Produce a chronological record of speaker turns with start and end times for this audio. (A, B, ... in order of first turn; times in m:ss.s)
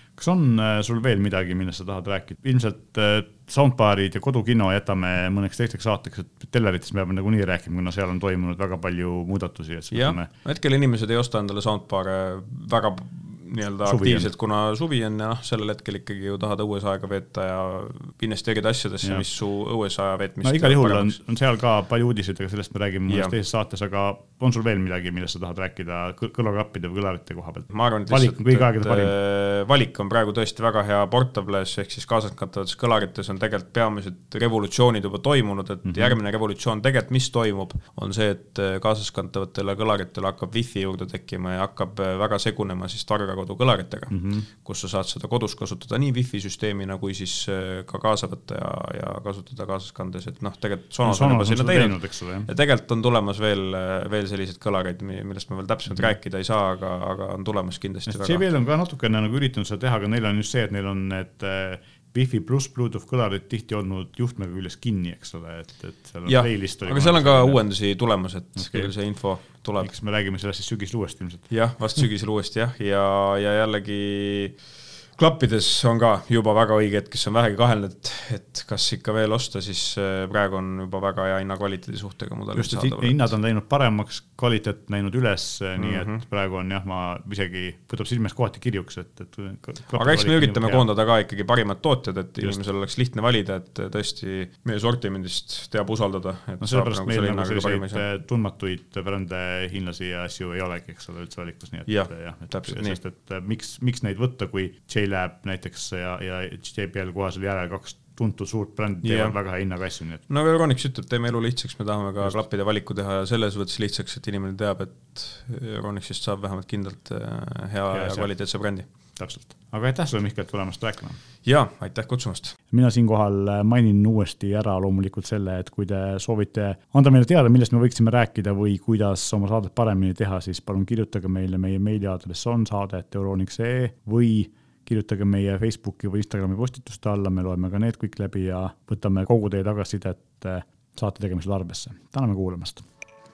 0:00.2-0:10.3 A
0:09.9-0:21.2 B
0:13.8-0:14.3 A
0:20.4-0:29.1 A
0:23.1-0:23.3 B
0:27.7-0:58.4 B
0:35.8-0:36.2 A
0:44.1-0:44.5 A
0:51.0-0:52.5 A
0:58.1-1:07.6 A
1:06.2-1:09.9 B
1:08.6-1:11.5 A
1:11.5-1:14.6 B
1:15.2-1:23.3 B
1:22.5-1:30.8 A
1:25.8-1:26.2 B
1:29.9-1:38.0 B
1:36.6-1:50.2 A
1:41.9-1:43.0 B
1:49.0-1:49.4 B
1:50.3-1:58.9 B
1:57.9-1:58.3 A
1:59.2-2:01.2 A
2:01.4-2:02.6 B
2:02.7-2:22.8 A